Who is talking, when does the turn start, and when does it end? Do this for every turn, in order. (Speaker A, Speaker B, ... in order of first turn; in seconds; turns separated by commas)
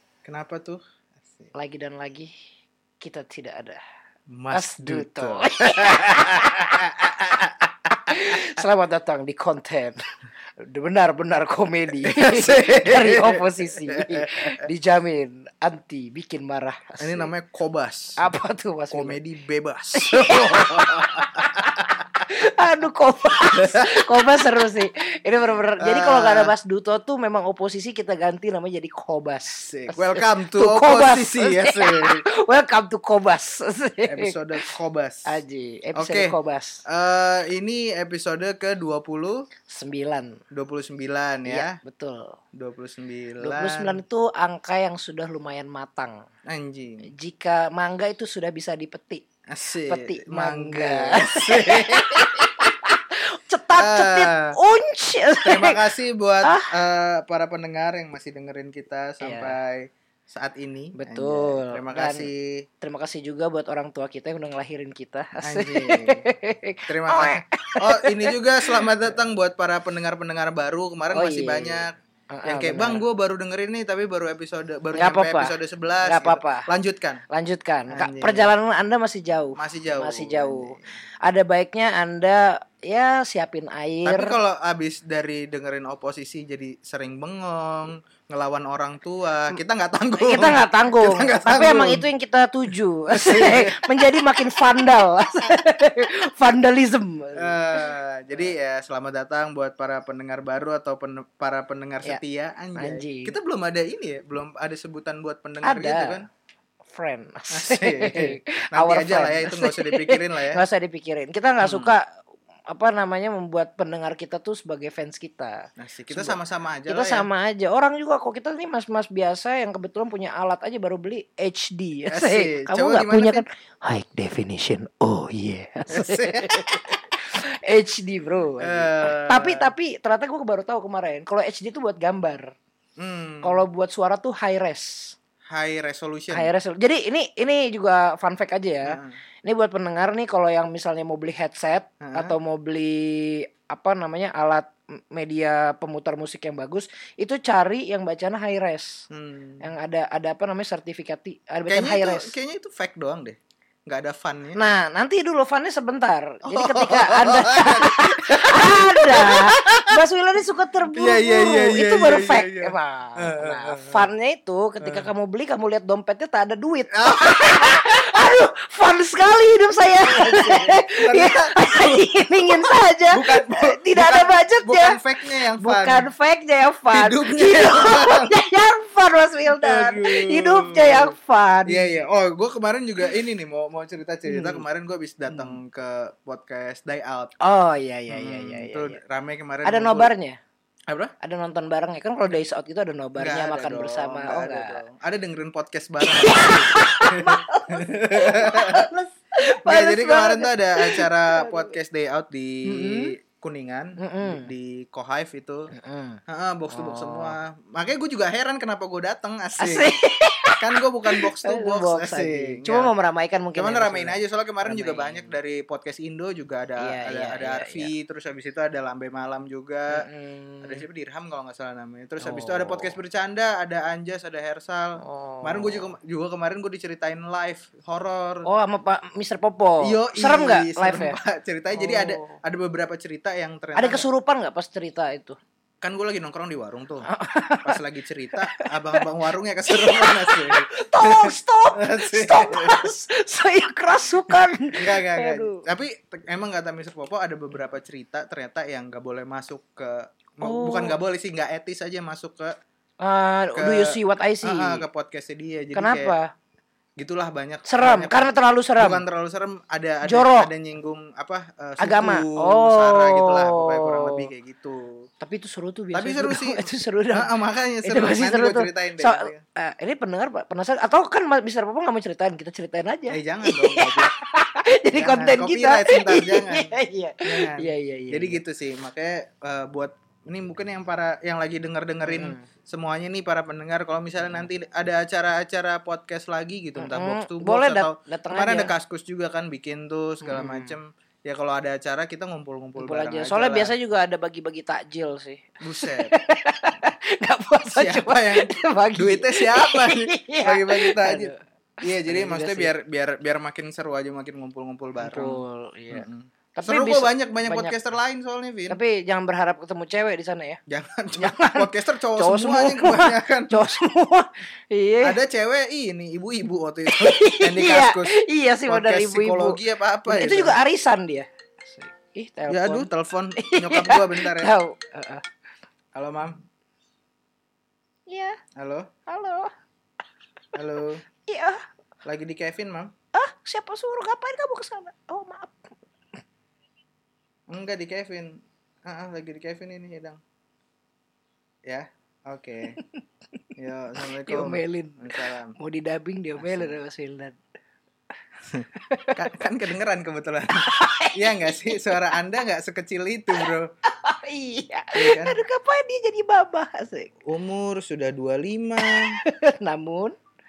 Speaker A: 0.2-1.5, Speaker B: 1.5-2.3, Speaker B: 3.0-3.8, Speaker A: 4.3-8.4, Speaker B: 4.5-10.0, Speaker B: 10.6-17.2, Speaker A: 12.0-14.7, Speaker A: 17.0-18.2, Speaker B: 18.2-19.2, Speaker A: 18.9-22.0, Speaker B: 19.9-34.7, Speaker A: 23.5-24.0, Speaker A: 25.8-26.5, Speaker A: 29.6-32.2, Speaker A: 34.0-35.4, Speaker B: 35.2-36.8, Speaker A: 36.0-36.3, Speaker A: 36.9-39.5, Speaker B: 39.7-40.4, Speaker A: 40.5-41.8, Speaker B: 41.5-42.4, Speaker A: 42.5-44.0, Speaker B: 43.4-46.2, Speaker A: 46.5-47.1, Speaker B: 47.0-49.2, Speaker A: 49.5-52.7, Speaker B: 49.9-55.8, Speaker A: 53.8-54.5, Speaker A: 55.4-62.6, Speaker B: 56.4-56.7, Speaker B: 59.2-59.5, Speaker B: 60.9-62.2, Speaker B: 62.8-68.8, Speaker A: 65.4-66.2, Speaker A: 66.9-77.2, Speaker B: 71.1-73.0, Speaker B: 74.9-76.7, Speaker B: 77.3-84.3, Speaker A: 77.9-78.5, Speaker A: 79.6-80.9, Speaker A: 84.0-92.1, Speaker B: 90.2-97.9, Speaker A: 92.7-94.6, Speaker A: 97.3-106.3, Speaker B: 102.8-103.3, Speaker B: 105.6-106.2, Speaker B: 106.9-112.1, Speaker A: 107.5-110.6, Speaker A: 111.6-111.9, Speaker B: 112.7-132.5, Speaker A: 115.8-117.3, Speaker A: 122.1-123.4, Speaker A: 125.9-127.0, Speaker A: 128.6-129.7, Speaker A: 133.0-133.6, Speaker B: 133.4-135.2, Speaker A: 135.5-136.5, Speaker B: 136.3-149.0, Speaker A: 138.8-139.2, Speaker A: 142.0-142.3, Speaker A: 149.1-149.7, Speaker B: 149.6-152.3, Speaker A: 151.7-154.6, Speaker B: 154.5-175.0, Speaker A: 156.4-160.0, Speaker A: 160.9-164.1, Speaker A: 164.8-165.1, Speaker A: 166.9-168.1, Speaker A: 170.0-172.0, Speaker A: 172.6-176.1, Speaker B: 175.6-182.0, Speaker A: 176.9-178.3, Speaker A: 179.5-181.2, Speaker A: 181.7-187.3, Speaker B: 184.2-184.6, Speaker B: 185.3-185.6, Speaker B: 187.4-189.0, Speaker A: 188.1-190.1, Speaker B: 189.6-190.4, Speaker A: 190.9-191.1, Speaker B: 191.2-194.8, Speaker A: 193.2-198.9, Speaker B: 196.0-201.7, Speaker A: 199.6-205.7, Speaker B: 202.6-203.2, Speaker B: 204.0-204.5, Speaker B: 205.7-206.2, Speaker A: 206.3-209.9, Speaker B: 206.7-207.4, Speaker B: 209.6-215.3, Speaker A: 210.6-212.9, Speaker A: 213.5-220.1, Speaker B: 216.8-217.9, Speaker B: 219.9-220.8, Speaker A: 220.6-228.5, Speaker B: 222.2-222.8, Speaker B: 225.0-225.9, Speaker B: 228.4-231.2, Speaker A: 229.8-234.1, Speaker B: 231.7-232.4, Speaker B: 233.8-235.4, Speaker A: 235.8-237.1, Speaker B: 237.1-237.8, Speaker A: 237.6-242.9, Speaker B: 238.4-239.0, Speaker B: 239.7-245.6, Speaker A: 244.3-252.6, Speaker B: 250.4-251.0, Speaker B: 253.0-254.9, Speaker A: 253.5-256.1, Speaker B: 255.7-256.3, Speaker A: 257.0-265.1, Speaker B: 257.6-259.0, Speaker B: 260.0-260.5, Speaker B: 261.8-264.3, Speaker B: 265.2-267.3, Speaker A: 265.9-269.4, Speaker B: 267.8-278.4, Speaker A: 273.1-274.1, Speaker A: 274.9-293.7, Speaker B: 282.0-282.4, Speaker B: 286.8-288.7, Speaker B: 290.2-290.8, Speaker B: 292.8-301.4, Speaker A: 295.6-296.1, Speaker A: 297.7-308.8, Speaker B: 302.0-302.7, Speaker B: 305.0-307.7, Speaker B: 308.7-310.6, Speaker A: 310.7-313.6, Speaker B: 311.1-315.2, Speaker A: 315.0-318.1, Speaker B: 316.9-325.2, Speaker A: 318.7-320.6, Speaker A: 322.5-324.5, Speaker A: 325.9-326.4, Speaker B: 328.1-328.4, Speaker A: 328.6-328.9, Speaker B: 329.1-329.5, Speaker A: 330.5-331.0, Speaker B: 331.2-331.6, Speaker A: 332.0-332.9, Speaker B: 333.1-335.7, Speaker A: 337.5-340.2, Speaker A: 341.6-342.8, Speaker B: 342.8-343.0, Speaker A: 343.6-345.6, Speaker B: 344.0-347.4, Speaker A: 346.4-346.8, Speaker A: 348.5-353.7, Speaker B: 348.7-349.3, Speaker B: 350.6-352.1, Speaker B: 353.4-357.1, Speaker A: 354.9-355.4, Speaker A: 357.2-359.2, Speaker B: 358.8-360.1